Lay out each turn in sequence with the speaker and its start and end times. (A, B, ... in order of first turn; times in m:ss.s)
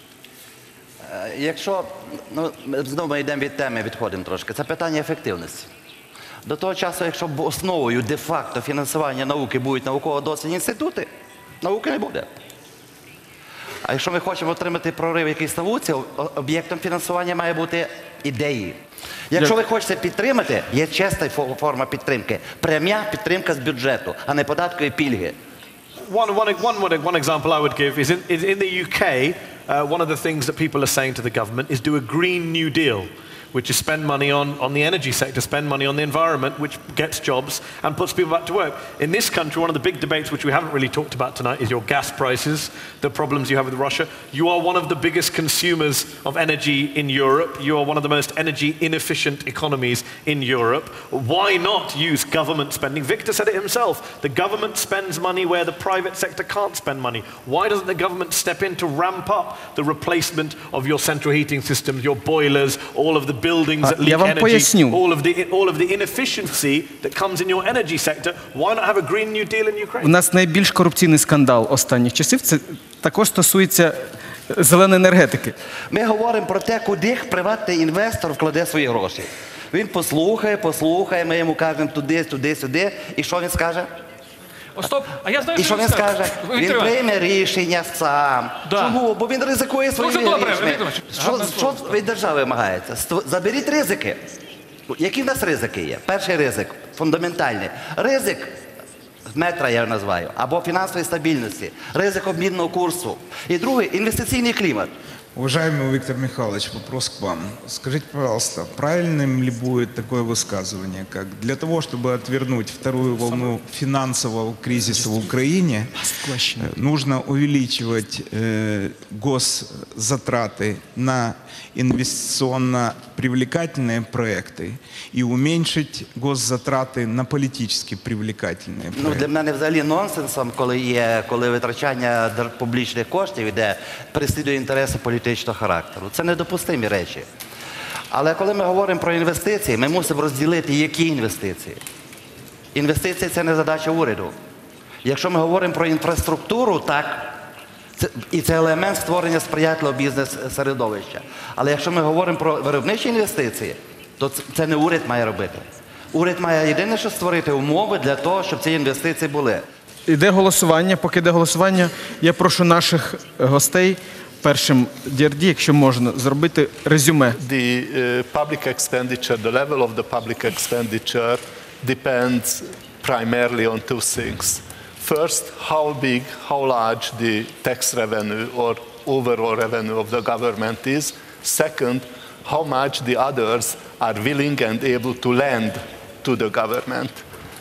0:01.1-0:05.7 A
0:06.4-0:11.1 A
0:11.6-0:12.3 A
0:13.8-0:18.8 A
0:19.3-0:25.4 A
0:26.1-1:10.1 B
1:03.8-1:05.0 C
1:10.0-1:15.5 C
1:15.9-1:23.9 A
1:24.8-1:27.0 D
1:25.6-1:34.2 A
1:28.7-1:29.0 D
1:30.0-1:31.9 D
1:34.9-1:38.5 A
1:39.3-1:44.9 A
1:45.4-1:56.0 E
1:55.0-1:55.2 C
1:56.1-1:56.7 C
1:56.6-2:09.3 E
2:08.9-2:17.3 A
2:18.1-2:21.8 A
2:22.7-2:24.3 A
2:25.0-2:27.4 A
2:28.0-2:39.6 A
2:40.1-2:47.4 C
2:47.4-3:07.2 F